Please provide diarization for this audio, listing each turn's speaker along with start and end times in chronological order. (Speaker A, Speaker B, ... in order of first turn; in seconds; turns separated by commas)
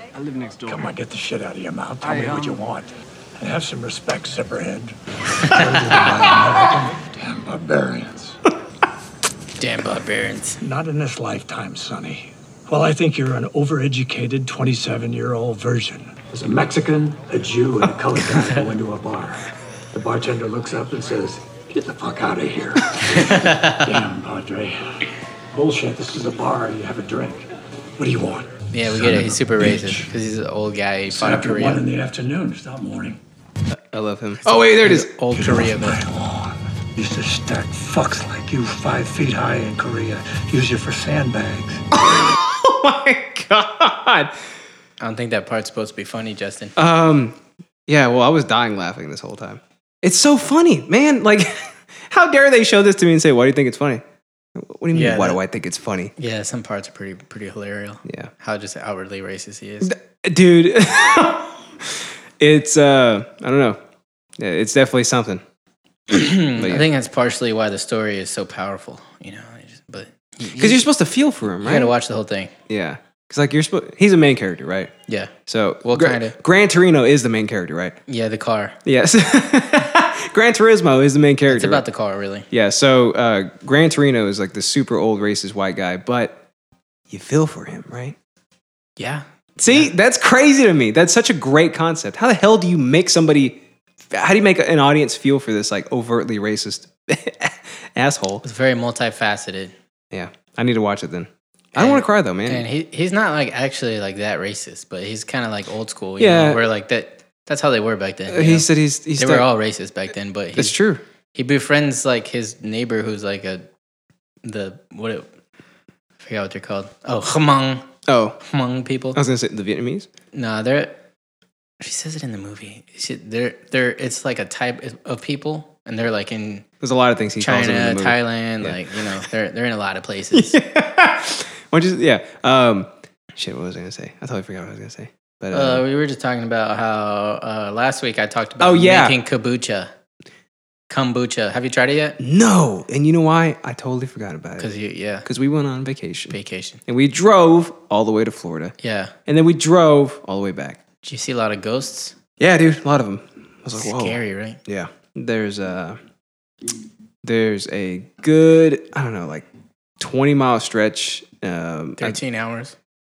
Speaker A: 0.2-0.6, Speaker B: 0.6-8.4, Speaker C: 9.6-10.6, Speaker B: 10.6-24.8, Speaker C: 23.2-23.9, Speaker B: 25.5-27.4, Speaker B: 28.0-30.1, Speaker C: 28.7-31.8, Speaker B: 31.1-33.2, Speaker A: 33.7-35.1, Speaker C: 34.4-36.0, Speaker B: 35.3-41.8, Speaker A: 41.9-44.3, Speaker C: 45.0-46.7, Speaker A: 46.8-54.0, Speaker A: 54.5-56.1, Speaker C: 54.9-55.4, Speaker C: 56.2-59.9, Speaker A: 58.0-58.3, Speaker A: 59.8-63.8, Speaker A: 64.4-65.4, Speaker C: 66.1-70.8, Speaker A: 66.6-66.9, Speaker A: 70.6-71.9, Speaker C: 71.6-72.5, Speaker A: 72.7-74.9, Speaker C: 75.1-75.3, Speaker A: 75.5-78.0, Speaker C: 75.8-76.4, Speaker C: 78.1-78.8, Speaker A: 78.8-81.8, Speaker C: 81.5-82.5, Speaker A: 82.5-86.4, Speaker A: 87.1-88.2, Speaker C: 89.0-89.9, Speaker A: 89.6-98.4, Speaker C: 98.4-99.7, Speaker A: 100.1-102.7, Speaker C: 101.8-110.8, Speaker A: 106.2-106.6, Speaker A: 108.3-109.5, Speaker A: 110.5-111.0, Speaker C: 111.3-113.7, Speaker C: 114.4-115.3, Speaker C: 116.2-117.9, Speaker A: 118.1-118.4, Speaker C: 118.4-119.2, Speaker A: 119.1-120.1, Speaker C: 120.3-121.0, Speaker C: 121.8-126.6, Speaker A: 126.8-129.2, Speaker C: 127.4-130.6, Speaker A: 130.3-135.8, Speaker C: 135.5-139.9, Speaker A: 138.6-139.2, Speaker C: 140.9-142.2, Speaker A: 142.2-144.7, Speaker C: 144.6-145.3, Speaker A: 145.2-146.3, Speaker C: 146.3-146.8, Speaker A: 146.9-148.7, Speaker C: 148.8-149.1, Speaker A: 149.3-150.8, Speaker C: 151.0-152.1, Speaker A: 152.4-156.0, Speaker C: 153.7-154.6, Speaker A: 157.2-159.5, Speaker A: 160.0-162.2, Speaker C: 162.0-162.7